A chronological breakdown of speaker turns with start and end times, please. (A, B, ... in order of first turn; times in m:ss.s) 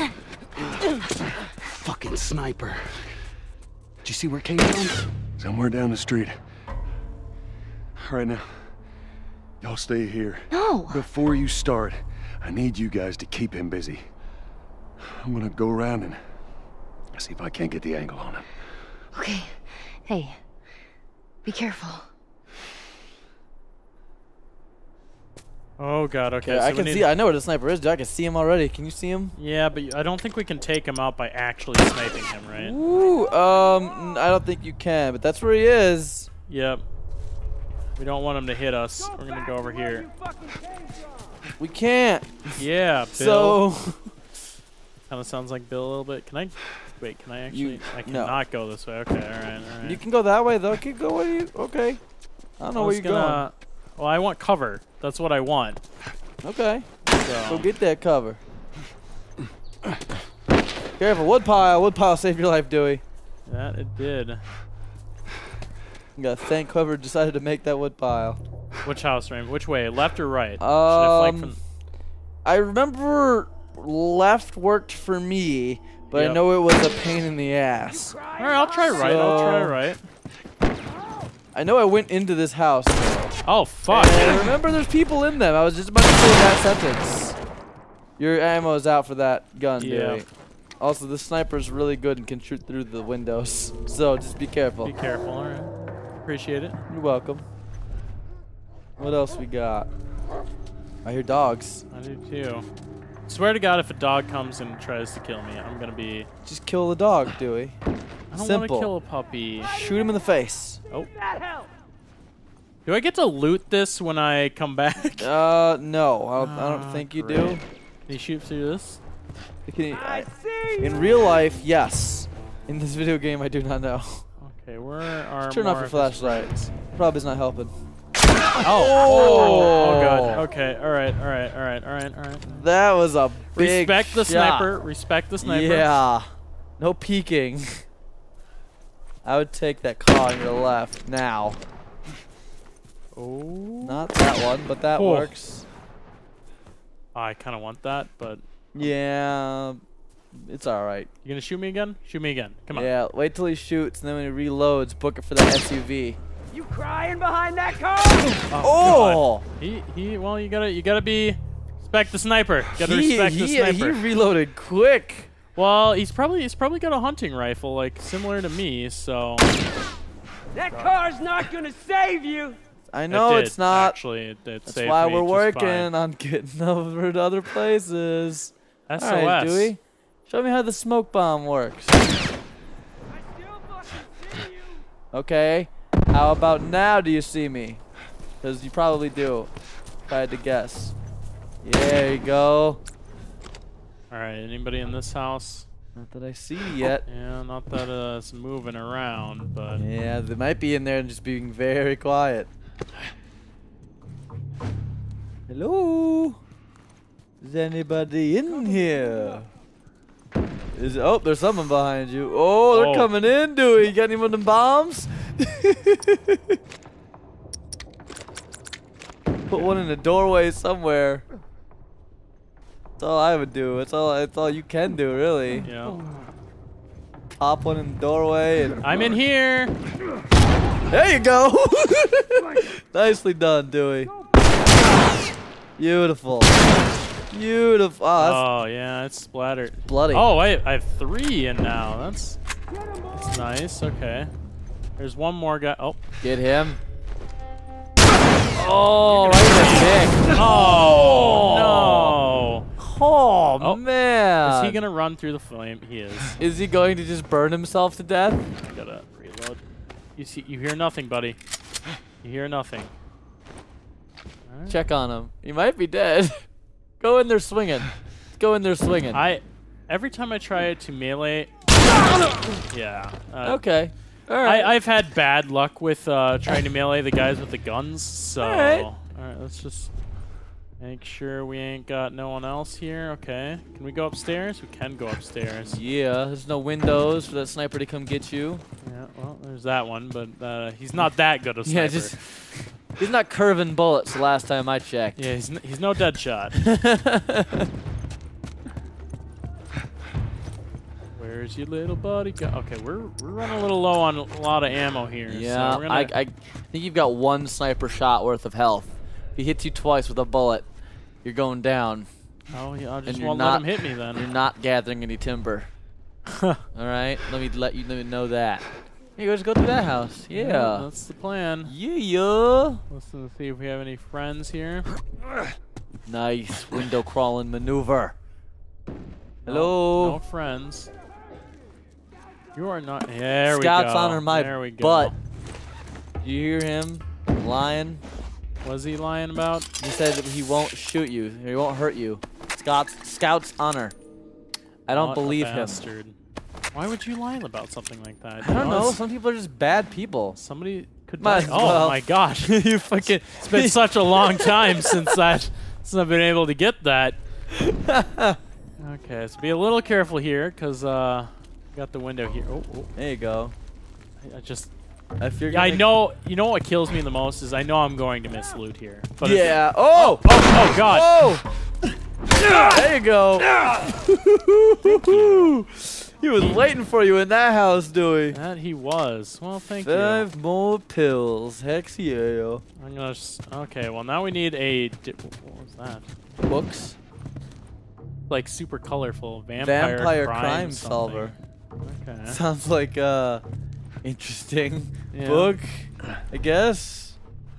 0:00.6-0:00.9 A
0:01.6-0:03.1 A
0:04.0-0:05.1 A
0:05.4-0:06.4 B
0:08.0-0:08.7 B
0:09.6-0:14.1 B
0:10.5-0:11.1 C
0:15.0-0:16.2 B
0:17.1-0:18.6 B
0:19.1-0:20.4 C
0:21.4-0:22.1 C
0:25.8-0:27.1 D
0:26.4-0:29.3 E
0:29.4-0:32.8 D
0:32.6-0:36.3 E
0:36.5-0:36.8 D
0:38.0-0:40.1 D
0:40.2-0:41.2 F
0:41.6-0:44.1 E
0:42.6-0:43.6 D
0:45.1-0:50.0 D
0:47.5-0:48.4 E
0:49.8-0:52.0 E
0:52.6-0:53.4 E
0:52.8-0:55.8 D
0:56.4-0:58.4 E
0:57.1-0:57.7 D
1:01.0-1:03.0 E
1:03.5-1:04.4 D
1:06.2-1:08.4 E
1:08.8-1:11.6 D
1:10.6-1:11.6 E
1:12.4-1:18.2 E
1:16.1-1:16.4 D
1:17.9-1:19.2 F
1:18.4-1:20.0 D
1:18.9-1:19.8 E
1:21.5-1:23.4 E
1:23.5-1:24.5 D
1:23.9-1:27.4 E
1:28.2-1:30.3 E
1:29.8-1:30.2 D
1:30.8-1:34.9 E
1:34.8-1:35.7 D
1:36.2-1:36.8 D
1:36.9-1:37.4 E
1:39.0-1:39.9 E
1:41.0-1:41.8 E
1:41.9-1:42.7 D
1:43.3-1:46.3 D
1:46.4-1:47.8 E
1:48.3-1:49.7 D
1:48.4-1:48.9 E
1:49.6-1:50.8 E
1:51.2-1:51.7 F
1:52.8-1:55.3 D
1:55.2-1:57.6 E
1:56.4-1:59.0 D
1:59.7-2:04.3 E
1:59.9-2:01.0 F
2:04.4-2:06.8 D
2:05.5-2:07.7 E
2:08.6-2:12.6 D
2:08.6-2:10.4 E
2:12.5-2:14.7 E
2:13.6-2:15.9 D
2:15.4-2:17.8 E
2:19.2-2:21.6 E
2:23.2-2:24.1 D
2:23.8-2:25.6 E
2:25.0-2:25.3 D
2:27.2-2:28.4 D
2:28.7-2:29.8 E
2:30.3-2:31.1 E
2:31.2-2:32.9 D
2:32.7-2:36.2 E
2:36.5-2:38.5 F
2:38.5-2:44.0 D
2:38.6-2:39.4 E
2:42.8-2:45.3 E
2:45.6-2:49.5 D
2:50.5-2:52.6 F
2:52.9-2:54.0 E
2:53.1-2:55.9 D
2:54.7-3:02.0 E
2:58.9-2:59.7 D
3:05.1-3:07.8 E
3:08.4-3:09.5 E
3:10.1-3:10.9 E
3:11.6-3:12.8 E
3:14.1-3:15.7 D
3:16.0-3:17.1 E
3:17.1-3:19.8 D
3:19.8-3:22.5 E
3:25.5-3:26.4 E
3:27.4-3:29.5 E
3:30.7-3:36.6 E
3:32.7-3:33.1 D
3:39.5-3:41.2 E
3:43.0-3:45.7 E
3:45.6-3:46.0 D
3:47.4-3:48.9 E
3:48.8-3:49.8 D
3:50.9-3:54.1 E
3:55.8-3:56.6 E
3:57.3-3:58.4 E
3:58.2-4:02.4 D
3:59.9-4:00.3 E
4:03.1-4:04.3 D
4:05.0-4:06.0 D
4:06.2-4:06.8 E
4:08.6-4:12.2 E
4:09.0-4:12.7 D
4:12.8-4:14.8 E
4:14.4-4:16.4 D
4:16.4-4:18.5 E
4:18.6-4:19.6 D
4:20.2-4:21.4 D
4:22.2-4:22.9 D
4:24.5-4:24.8 D
4:24.7-4:26.4 E
4:27.0-4:29.2 E
4:29.1-4:31.5 D
4:32.0-4:32.6 E
4:32.7-4:33.6 D
4:33.4-4:34.7 E
4:34.4-4:39.9 D
4:38.4-4:38.9 E
4:40.8-4:45.8 D
4:45.7-4:48.6 E
4:48.8-4:52.2 D
4:51.6-4:55.2 E
4:55.2-4:56.6 D
4:56.6-4:57.7 E
5:01.2-5:06.1 D
5:05.3-5:10.7 E
5:11.2-5:12.1 E
5:12.5-5:14.2 D
5:13.1-5:15.7 E
5:16.7-5:20.9 E
5:20.3-5:21.7 D
5:21.7-5:22.8 E
5:22.9-5:24.9 D
5:26.1-5:28.1 E
5:29.4-5:30.9 D
5:29.5-5:30.2 E
5:32.5-5:35.1 D
5:33.5-5:35.1 E
5:36.2-5:38.0 E
5:38.6-5:39.7 D
5:39.8-5:44.0 E
5:44.9-5:45.8 E
5:44.9-5:46.2 D
5:46.7-5:49.0 D
5:48.4-5:50.4 E
5:50.4-5:57.2 D
5:51.2-5:55.0 E
5:57.5-5:58.4 E
5:58.8-6:02.9 D
6:03.0-6:03.5 E
6:04.2-6:04.7 D
6:05.2-6:05.9 E
6:05.5-6:11.3 D
6:09.2-6:11.4 E
6:12.4-6:18.4 E
6:14.8-6:15.6 D
6:18.3-6:20.3 D
6:19.8-6:22.6 E
6:22.8-6:26.1 D
6:26.4-6:27.0 E
6:28.3-6:32.4 D
6:29.6-6:31.4 E
6:32.3-6:33.4 E
6:34.0-6:37.2 E
6:35.1-6:35.6 D